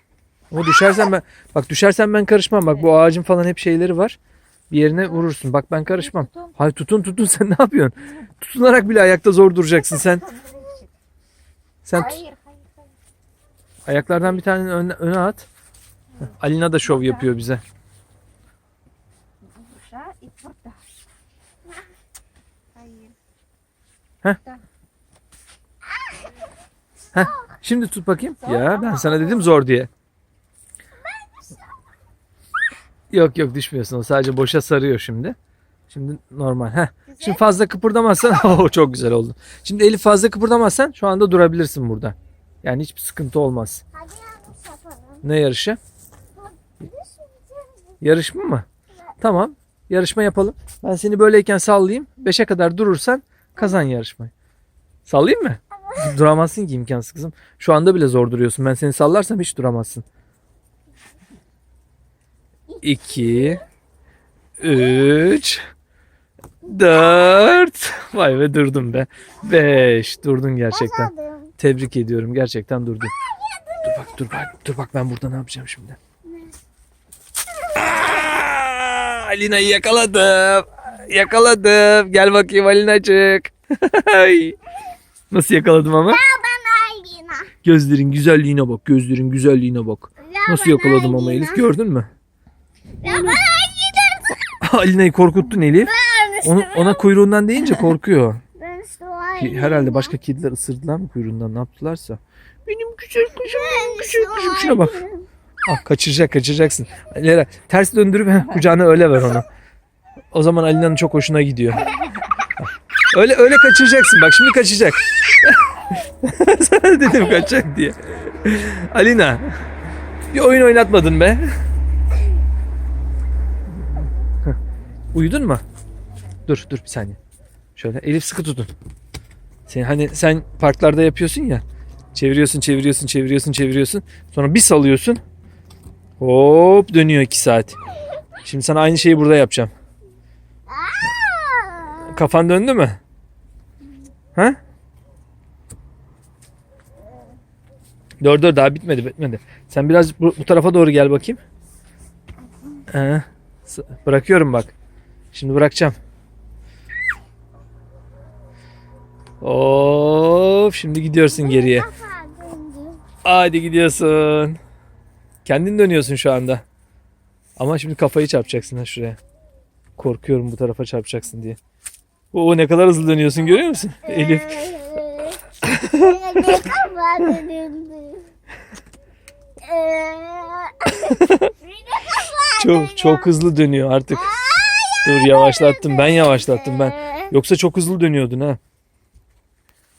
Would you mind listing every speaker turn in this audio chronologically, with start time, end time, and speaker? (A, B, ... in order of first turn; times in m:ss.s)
0:00.5-0:04.2 A
0:04.7-0:10.2 A
0:05.9-0:06.6 B
0:09.9-0:10.9 B
0:11.8-0:12.2 A
0:11.9-0:13.0 B
0:13.8-0:15.5 A
0:16.1-0:17.3 B
0:16.2-0:17.6 A
0:19.4-0:20.9 B
0:22.7-0:23.2 B
0:27.1-0:29.9 A
0:28.4-0:29.4 B
0:31.0-0:31.7 C
0:33.1-0:35.4 A
0:35.9-0:43.8 A
0:37.1-0:37.5 B
0:43.9-0:45.2 C
0:45.2-0:45.8 A
0:46.3-0:48.0 C
0:48.0-0:48.7 A
0:49.2-0:54.3 A
0:55.0-1:00.0 A
0:55.8-0:56.1 C
1:02.7-1:03.6 C
1:02.8-1:03.6 A
1:04.6-1:05.6 A
1:06.6-1:13.1 A
1:10.7-1:11.5 C
1:13.3-1:14.1 C
1:13.8-1:16.0 A
1:16.3-1:16.5 C
1:17.7-1:24.6 A
1:25.3-1:26.2 A
1:26.1-1:27.5 C
1:27.6-1:32.1 A
1:30.2-1:31.7 C
1:33.0-1:34.4 C
1:33.0-1:33.4 A
1:34.6-1:38.4 A
1:35.8-1:37.1 C
1:38.6-1:40.1 C
1:39.4-1:45.0 A
1:43.4-1:45.3 C
1:45.6-1:49.5 A
1:50.3-1:51.9 A
1:53.1-1:59.5 A
2:00.3-2:01.5 A
2:05.1-2:05.6 A
2:06.5-2:07.2 A
2:07.8-2:08.7 A
2:09.7-2:15.2 A
2:16.2-2:17.8 A
2:18.4-2:19.7 A
2:20.7-2:22.2 C
2:22.0-2:23.0 A
2:28.2-2:31.4 A
2:32.9-2:34.7 A
2:35.3-2:36.0 A
2:39.4-2:41.9 A
2:41.2-2:43.0 C
2:43.2-2:44.6 A
2:45.4-2:46.6 A
2:47.6-2:49.2 A
2:50.0-2:51.6 A
2:52.3-2:54.6 A
2:54.0-2:58.3 C
2:55.6-2:56.6 A
2:59.6-3:03.3 C
3:00.9-3:01.5 A
3:02.6-3:04.4 A
3:04.1-3:07.3 C
3:05.0-3:08.6 A